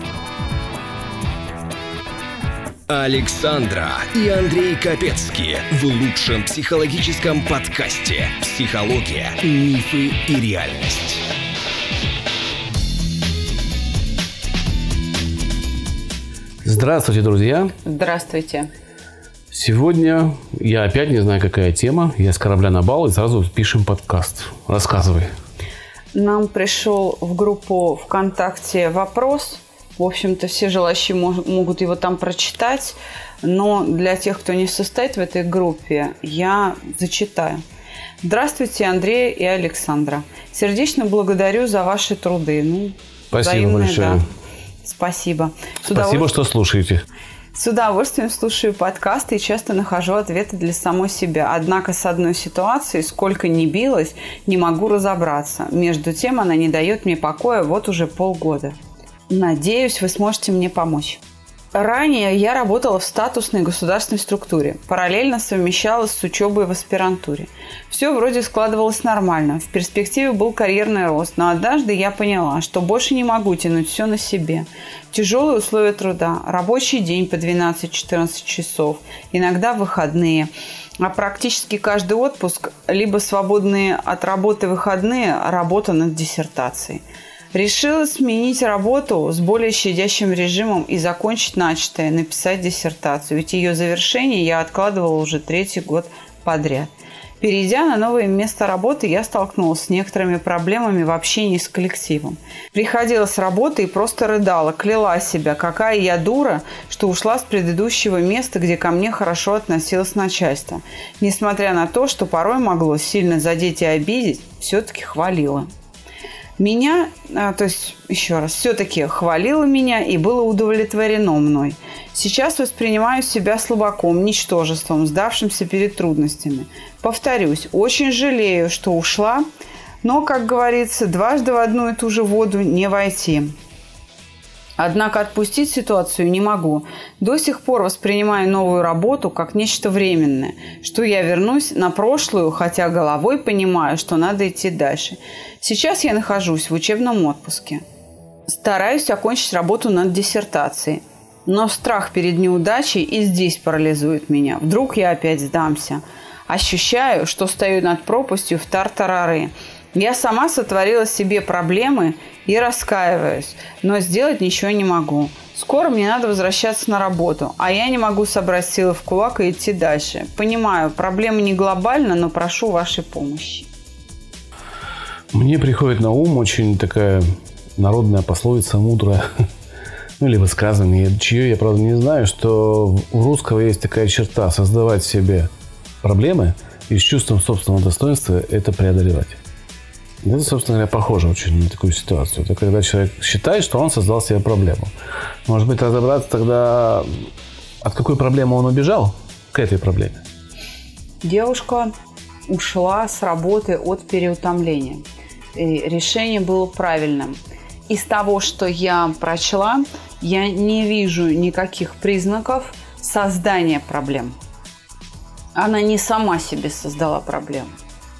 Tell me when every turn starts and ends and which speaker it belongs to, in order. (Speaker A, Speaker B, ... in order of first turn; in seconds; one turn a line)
Speaker A: 2.9-11.2
Speaker B: 16.6-17.7
Speaker C: 17.8-18.7
Speaker B: 19.5-25.3
Speaker C: 26.1-37.6
Speaker C: 38.2-44.2
Speaker B: 43.3-44.2
Speaker C: 44.8-46.3
Speaker B: 45.9-47.0
Speaker C: 47.5-58.8
Speaker C: 59.3-61.2
Speaker C: 61.7-87.0
Speaker C: 87.5-115.7
Speaker C: 116.6-129.4
Speaker C: 130.0-133.5
Speaker C: 134.8-147.8
Speaker C: 148.5-173.7
Speaker B: 175.3-179.2
Speaker B: 180.2-185.5
Speaker B: 186.0-189.4
Speaker B: 190.2-194.9
Speaker B: 195.4-197.1
Speaker B: 197.8-200.2
Speaker C: 201.2-201.9
Speaker C: 202.5-205.0
Speaker C: 205.5-214.3
Speaker C: 215.5-217.8